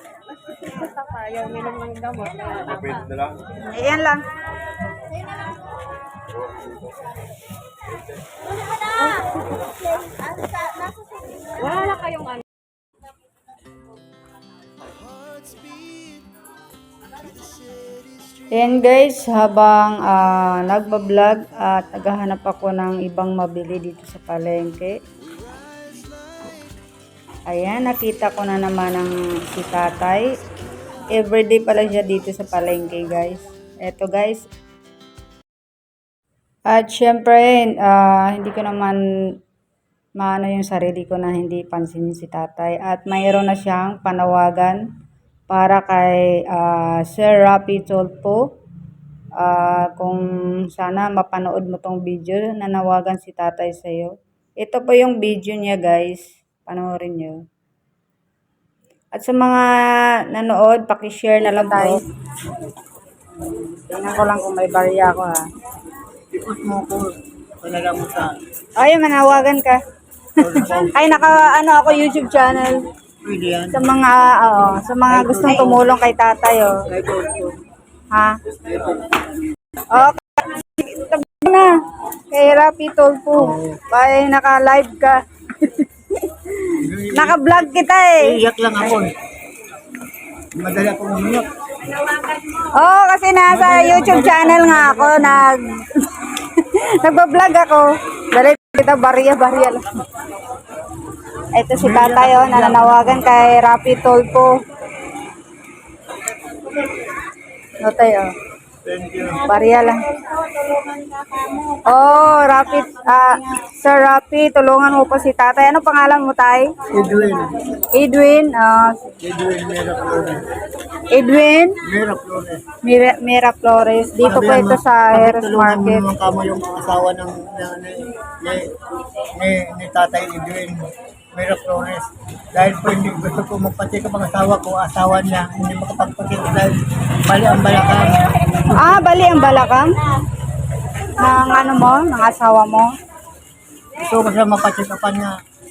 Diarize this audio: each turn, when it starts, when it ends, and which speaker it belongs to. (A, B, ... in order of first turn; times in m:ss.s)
0:01.0-0:03.1 A
0:03.5-0:04.3 B
0:11.6-0:12.3 A
0:18.5-0:25.0 B
0:27.5-0:30.3 B
0:31.1-0:34.5 B
0:36.7-0:39.0 B
0:40.2-0:44.8 B
0:45.5-0:48.4 B
0:49.4-0:57.4 B
0:59.1-0:59.7 B
1:00.3-1:02.0 B
1:01.6-1:02.0 C
1:03.4-1:05.4 B
1:06.3-1:08.3 C
1:08.8-1:09.8 B
1:10.4-1:11.1 C
1:10.4-1:12.8 B
1:13.2-1:13.8 C
1:13.7-1:16.8 B
1:15.1-1:15.8 C
1:16.9-1:17.6 C
1:18.1-1:18.4 B
1:18.7-1:19.1 C
1:19.9-1:21.8 B
1:22.3-1:28.4 B
1:23.4-1:23.8 C
1:26.8-1:27.4 C
1:28.2-1:29.1 C
1:30.5-1:31.5 C
1:32.4-1:39.8 B
1:33.5-1:35.5 C
1:41.5-1:44.5 B
1:41.7-1:43.3 C
1:47.8-1:48.3 B
1:48.8-1:49.4 C
1:49.4-1:56.7 B
1:56.9-1:57.5 C
1:57.9-1:59.2 B
1:59.2-2:00.5 C
2:01.1-2:01.8 B
2:01.8-2:02.6 C
2:02.8-2:06.1 B
2:04.2-2:08.7 C
2:09.4-2:19.0 C
2:18.7-2:20.0 B
2:21.2-2:22.9 B
2:23.9-2:25.3 C